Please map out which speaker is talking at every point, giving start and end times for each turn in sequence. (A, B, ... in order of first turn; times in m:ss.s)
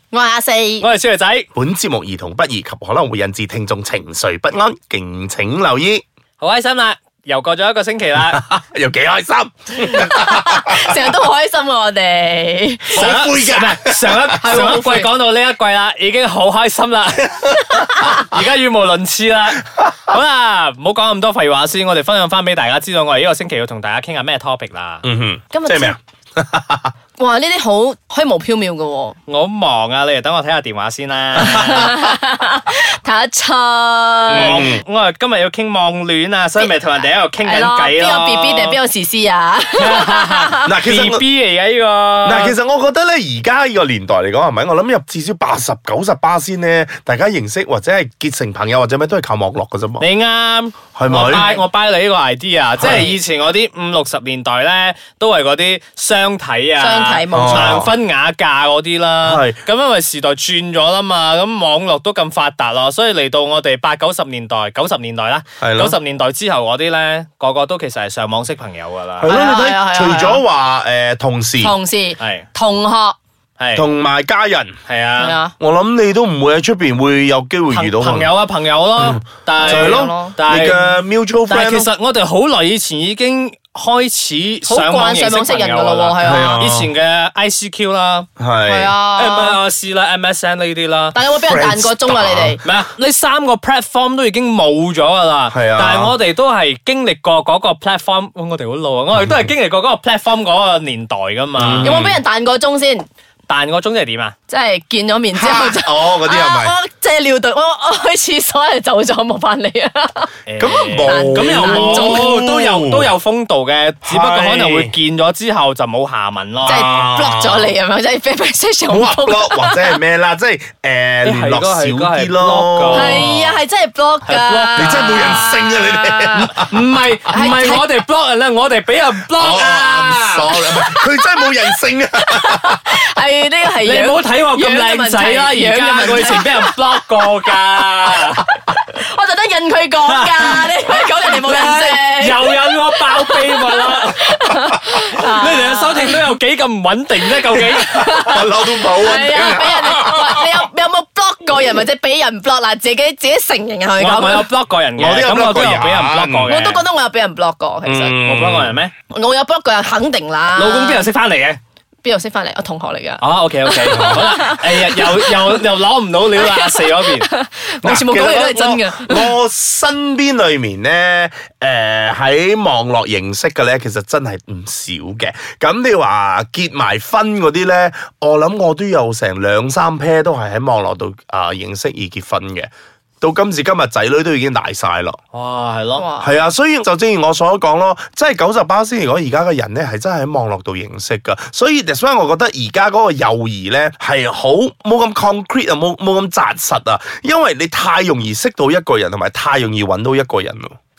0:00.1-0:00.9 A
0:00.8-0:01.5 B
0:01.5-0:06.0 C
0:06.4-0:08.4 B
0:08.2-0:10.7 C
0:10.0-0:13.1 A
0:12.9-0:25.1 B
0:12.9-0:14.7 C
0:14.4-0:15.1 A
0:25.0-0:26.9 C
0:25.5-0:26.0 A
0:27.2-0:29.2 A
0:29.3-0:31.9 B
0:31.4-0:31.7 C
0:31.5-0:34.5 A
0:34.3-0:38.8 B
0:34.3-0:34.8 C
0:37.4-0:40.8 A
0:39.8-0:42.6 B
0:40.6-0:41.2 C
0:42.2-0:50.1 C
0:50.0-1:09.3 B
0:51.0-0:51.5 C
0:52.8-0:53.1 C
0:56.8-0:57.8 A
0:57.3-0:57.9 C
0:59.2-0:59.6 C
1:05.6-1:06.0 C
1:09.2-1:11.7 C
1:09.2-1:10.4 A
1:11.6-1:13.2 A
1:12.2-1:12.4 B
1:13.6-1:13.9 B
1:13.8-1:14.8 C
1:14.9-1:15.4 B
1:15.2-1:15.6 A
1:15.6-1:18.3 C
1:17.7-1:20.9 B
1:19.0-1:21.9 C
1:19.6-1:20.4 A
1:21.5-1:28.3 B
1:24.7-1:26.6 A
1:26.2-1:26.9 C
1:28.4-1:28.9 C
1:28.7-1:29.6 A
1:29.2-1:31.2 B
1:31.1-1:32.6 A
1:31.4-1:32.6 C
1:32.6-1:42.1 B
1:35.5-1:36.2 C
1:41.6-1:42.2 C
1:41.8-1:43.0 A
1:43.5-1:44.3 B
1:44.5-1:52.3 A
1:45.3-1:46.8 C
1:50.5-1:56.9 B
1:50.6-1:53.1 C
1:54.0-1:55.0 C
1:56.6-2:00.0 A
1:56.7-1:57.7 C
1:58.9-2:03.3 C
2:01.2-2:03.6 B
2:02.9-2:06.5 A
2:04.3-2:05.5 B
2:04.8-2:06.8 C
2:06.4-2:10.6 B
2:07.3-2:08.0 A
2:09.3-2:13.0 C
2:10.6-2:11.2 A
2:12.2-2:16.7 A
2:13.8-2:18.4 B
2:18.3-2:26.2 A
2:20.0-2:28.4 B
2:27.5-2:30.5 C
2:27.8-2:34.5 A
2:34.0-2:36.8 B
2:35.0-2:36.5 C
2:36.4-2:38.2 A
2:37.8-2:38.8 C
2:38.2-2:38.9 B
2:39.1-2:41.1 A
2:40.6-2:41.6 B
2:42.0-2:45.7 A
2:43.2-2:47.2 B
2:43.9-2:44.4 C
2:46.4-2:49.3 A
2:47.8-3:02.7 C
3:03.2-3:05.2 C
3:05.3-3:06.1 B
3:06.0-3:06.3 A
3:06.2-3:20.7 C